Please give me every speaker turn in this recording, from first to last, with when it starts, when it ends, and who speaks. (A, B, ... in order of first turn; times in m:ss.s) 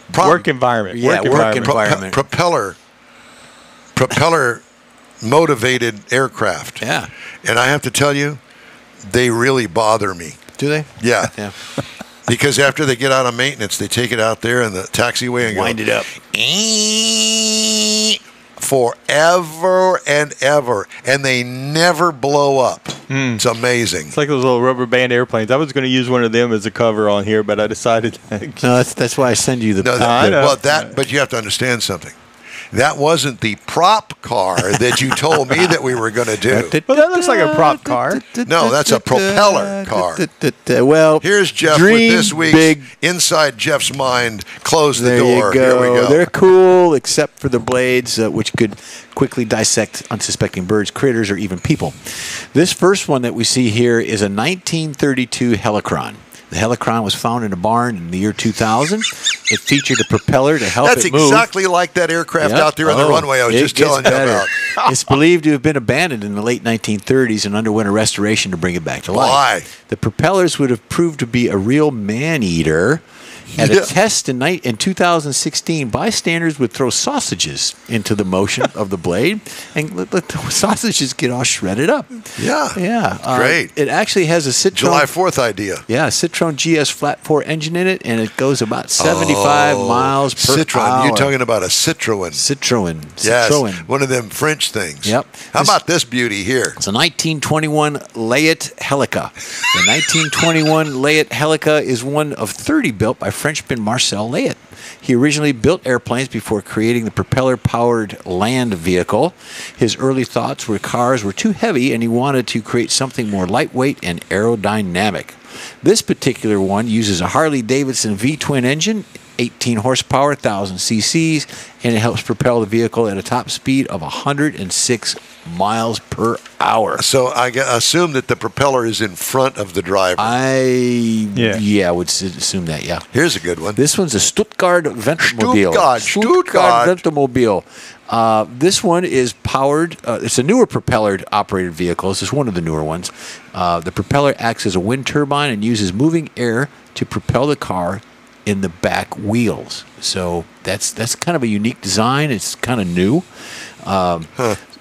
0:00.1-0:00.5 A
0:00.1-0:01.8 B
0:00.9-0:02.2 C
0:01.2-0:02.8 A
0:03.9-0:04.6 A
0:05.2-0:06.8 A
0:06.8-0:07.1 C
0:07.4-0:08.4 A
0:09.1-0:10.4 A
0:10.6-0:11.5 C
0:11.0-0:11.3 A
0:12.2-0:24.1 A
0:15.4-0:16.2 C
0:23.1-0:23.4 B
0:24.1-0:28.7 B
0:28.6-0:30.4 C
0:29.8-0:32.1 A
0:30.0-0:31.0 B
0:32.7-0:36.8 A
0:36.4-0:42.9 C
0:36.9-0:38.2 B
0:38.4-0:40.2 A
0:41.2-0:46.3 A
0:44.9-1:01.5 C
1:00.8-1:04.7 A
1:02.4-1:13.0 C
1:09.1-1:09.7 A
1:13.5-1:13.9 A
1:13.5-1:25.1 C
1:22.4-1:23.7 A
1:24.7-1:25.8 A
1:25.9-1:31.3 C
1:29.0-1:32.4 A
1:32.3-1:33.9 C
1:33.2-1:36.8 A
1:35.0-1:35.8 C
1:36.8-2:07.0 C
2:07.0-2:10.3 A
2:10.2-2:13.0 C
2:11.4-2:11.6 B
2:13.1-2:13.8 A
2:13.8-2:33.3 C
2:15.2-2:17.0 A
2:33.8-2:34.3 C